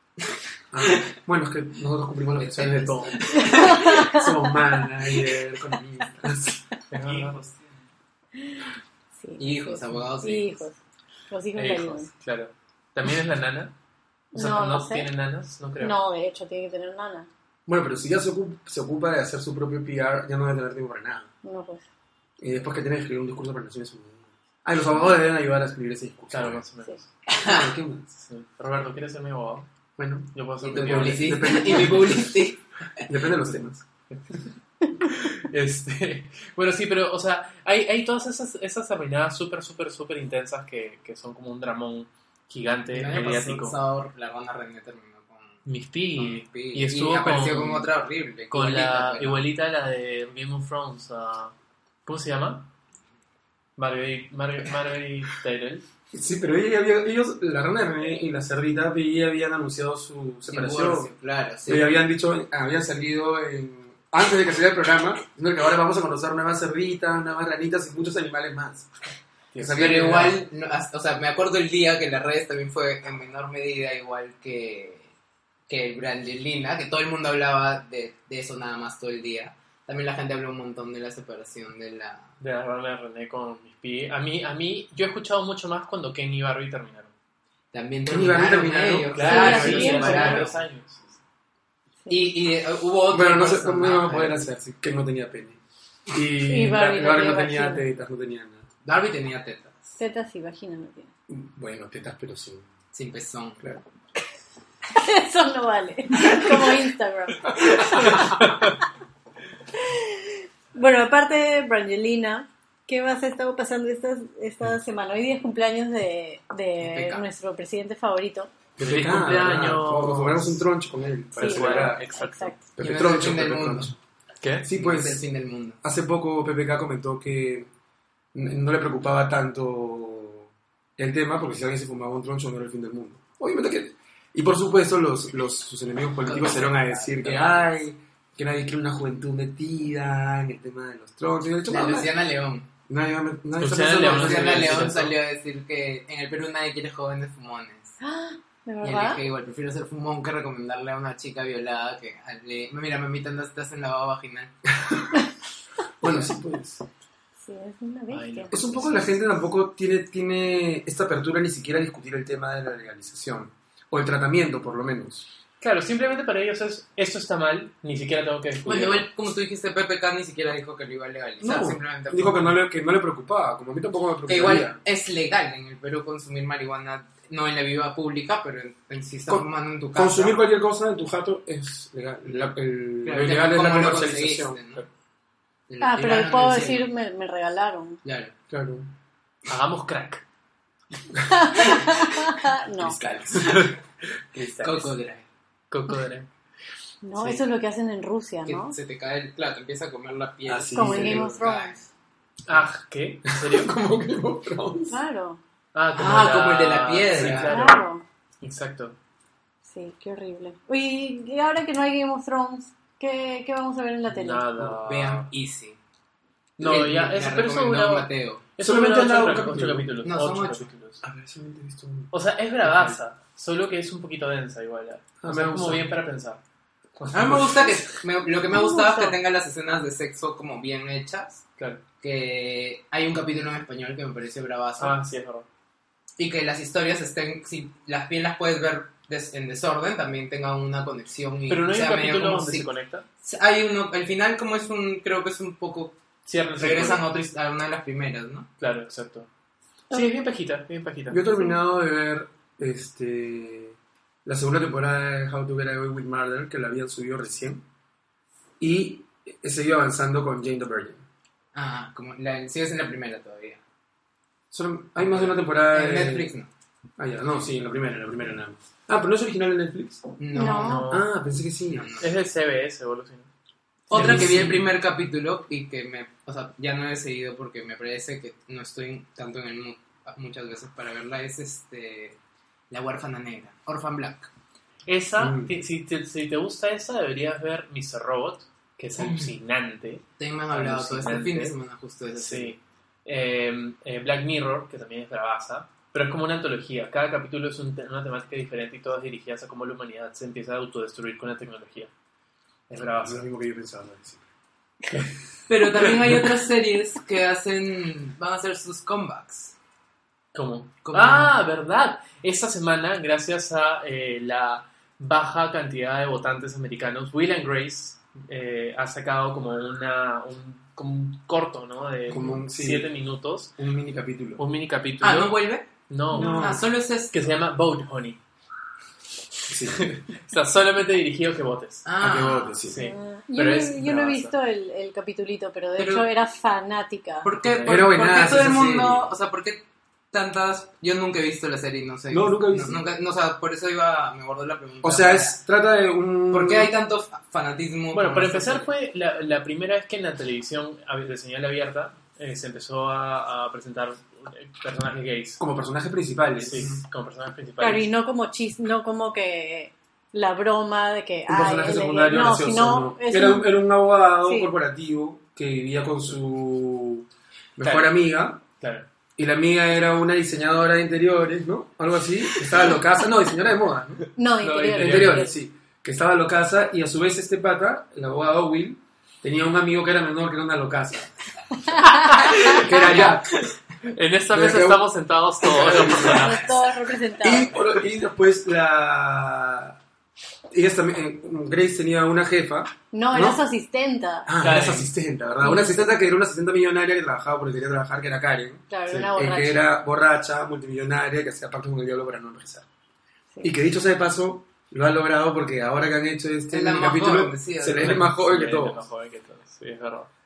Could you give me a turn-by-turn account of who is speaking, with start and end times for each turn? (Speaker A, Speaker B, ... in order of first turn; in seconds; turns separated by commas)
Speaker A: 0.7-3.2, Speaker B: 2.4-4.0, Speaker C: 2.7-3.2, Speaker D: 3.3-4.3, Speaker A: 3.9-6.6, Speaker C: 6.9-7.3, Speaker B: 6.9-7.7, Speaker D: 8.4-10.8, Speaker B: 9.4-10.6, Speaker D: 11.3-12.1, Speaker C: 11.6-13.7, Speaker D: 14.3-15.1, Speaker C: 14.3-16.0, Speaker D: 15.8-17.3, Speaker A: 17.7-21.3, Speaker D: 21.4-21.8, Speaker A: 22.4-26.6, Speaker C: 26.3-27.1, Speaker B: 27.3-27.7, Speaker A: 27.4-28.1, Speaker C: 28.3-29.7, Speaker A: 30.0-32.4, Speaker C: 30.3-31.9, Speaker B: 30.6-33.0, Speaker A: 33.1-33.8, Speaker C: 34.1-43.8, Speaker B: 42.9-45.6, Speaker C: 45.6-47.9, Speaker B: 46.2-49.4, Speaker C: 48.5-51.5, Speaker C: 52.1-52.7, Speaker C: 53.8-55.9, Speaker A: 56.1-61.1, Speaker B: 60.5-61.9, Speaker A: 61.7-70.4, Speaker C: 69.5-69.8, Speaker B: 69.7-75.1, Speaker B: 75.7-82.2, Speaker C: 82.4-87.1, Speaker B: 87.7-90.6, Speaker A: 88.1-89.9, Speaker C: 89.1-91.2, Speaker D: 89.2-90.5, Speaker B: 92.1-94.4, Speaker A: 93.1-98.7, Speaker D: 96.4-97.8, Speaker B: 98.8-99.8, Speaker D: 100.0-101.1, Speaker A: 101.3-102.7, Speaker B: 102.9-103.6, Speaker D: 105.0-108.7, Speaker A: 107.5-108.0, Speaker C: 108.2-108.7, Speaker D: 109.8-118.5, Speaker B: 116.8-117.3, Speaker A: 118.8-122.1, Speaker C: 118.8-120.7, Speaker C: 121.3-122.5, Speaker D: 121.4-122.6, Speaker A: 122.8-124.0, Speaker B: 122.8-123.9, Speaker C: 124.4-124.7, Speaker A: 124.6-125.2, Speaker B: 124.7-125.8, Speaker A: 125.8-127.7, Speaker A: 128.3-142.1, Speaker B: 136.2-137.6, Speaker B: 141.7-142.7, Speaker A: 142.9-144.9, Speaker C: 143.6-145.2, Speaker B: 143.9-148.0, Speaker D: 148.0-149.2, Speaker B: 148.8-154.5, Speaker A: 154.7-155.1, Speaker A: 156.0-156.8, Speaker D: 157.4-158.5, Speaker C: 158.1-159.2, Speaker A: 158.5-165.3, Speaker C: 165.6-169.1, Speaker B: 168.7-172.5, Speaker A: 171.4-174.8, Speaker B: 174.3-180.4, Speaker A: 179.3-184.9, Speaker B: 183.0-184.8, Speaker B: 185.7-186.9, Speaker D: 185.8-188.0, Speaker B: 188.0-188.3, Speaker A: 188.5-188.9, Speaker C: 189.5-190.2, Speaker D: 191.3-193.0, Speaker A: 192.8-193.7, Speaker C: 193.3-193.7, Speaker C: 194.3-194.9, Speaker B: 194.5-195.3, Speaker C: 195.7-196.3, Speaker D: 197.0-198.8, Speaker C: 197.2-197.4, Speaker B: 198.5-201.8, Speaker A: 200.5-201.4, Speaker D: 200.7-201.9, Speaker C: 202.5-203.8, Speaker A: 203.3-205.0, Speaker D: 204.9-205.4, Speaker C: 205.7-207.8, Speaker B: 205.9-207.6, Speaker D: 207.3-208.0, Speaker C: 208.4-209.0, Speaker D: 209.6-214.5, Speaker C: 214.1-215.3, Speaker B: 214.6-215.8, Speaker B: 216.6-218.4, Speaker C: 216.6-221.0, Speaker A: 218.6-219.9, Speaker B: 220.0-220.7, Speaker A: 221.0-222.1, Speaker C: 222.1-226.4, Speaker A: 222.6-223.0, Speaker A: 225.2-225.9, Speaker C: 227.0-227.9, Speaker B: 227.1-231.4, Speaker A: 227.1-227.7, Speaker D: 228.5-229.2, Speaker C: 231.6-231.8, Speaker B: 232.0-235.0, Speaker C: 234.8-235.5, Speaker B: 236.2-242.7, Speaker C: 241.5-243.1, Speaker B: 243.2-245.9, Speaker C: 246.3-247.1, Speaker B: 246.6-248.5, Speaker C: 248.6-249.3, Speaker C: 249.9-251.3, Speaker A: 251.1-257.6, Speaker A: 258.6-261.0, Speaker B: 261.5-263.6, Speaker A: 264.5-266.3, Speaker B: 265.1-266.5, Speaker A: 267.0-270.1, Speaker B: 270.2-270.9, Speaker D: 270.3-270.9, Speaker C: 270.5-271.1, Speaker A: 270.9-272.0, Speaker B: 271.7-272.1, Speaker C: 272.0-273.3, Speaker B: 273.9-282.2, Speaker C: 273.9-274.6, Speaker A: 273.9-274.5, Speaker B: 282.7-284.3, Speaker C: 284.9-291.6, Speaker A: 285.2-285.5, Speaker B: 289.0-289.3, Speaker B: 290.2-292.6, Speaker C: 292.1-301.9, Speaker C: 302.7-303.2, Speaker A: 302.9-304.2, Speaker B: 305.5-309.6, Speaker A: 305.7-306.2, Speaker C: 310.3-323.5, Speaker B: 310.8-311.3, Speaker A: 322.1-322.9, Speaker A: 323.6-324.4, Speaker C: 324.4-326.5, Speaker B: 325.0-327.1, Speaker A: 326.1-326.6, Speaker D: 326.2-326.4, Speaker C: 327.1-328.2, Speaker A: 329.5-329.9, Speaker C: 329.7-331.9, Speaker B: 331.9-332.6, Speaker A: 332.0-332.8, Speaker C: 332.7-334.3, Speaker D: 332.7-337.3, Speaker B: 335.8-336.1, Speaker B: 337.2-345.4, Speaker C: 337.4-337.9, Speaker A: 337.6-339.1, Speaker A: 342.1-342.8, Speaker A: 344.8-346.7, Speaker B: 346.3-348.7, Speaker C: 347.9-355.4, Speaker A: 355.4-356.8, Speaker C: 356.4-357.9, Speaker D: 357.6-363.6, Speaker A: 361.3-368.4, Speaker D: 364.2-364.5, Speaker C: 367.6-368.0, Speaker C: 368.6-368.9, Speaker A: 369.2-374.1, Speaker D: 374.2-375.4, Speaker C: 374.4-375.3, Speaker A: 374.7-381.1, Speaker C: 381.8-386.6, Speaker D: 381.9-382.6, Speaker A: 382.4-383.4, Speaker A: 384.3-384.9, Speaker A: 385.4-386.4, Speaker D: 385.9-387.6, Speaker A: 387.2-389.8, Speaker A: 390.5-393.4, Speaker D: 392.9-394.3, Speaker A: 394.3-402.7, Speaker C: 394.4-394.9, Speaker D: 395.4-395.9, Speaker D: 398.7-399.6, Speaker A: 403.4-408.9, Speaker B: 406.5-408.1, Speaker C: 407.8-410.1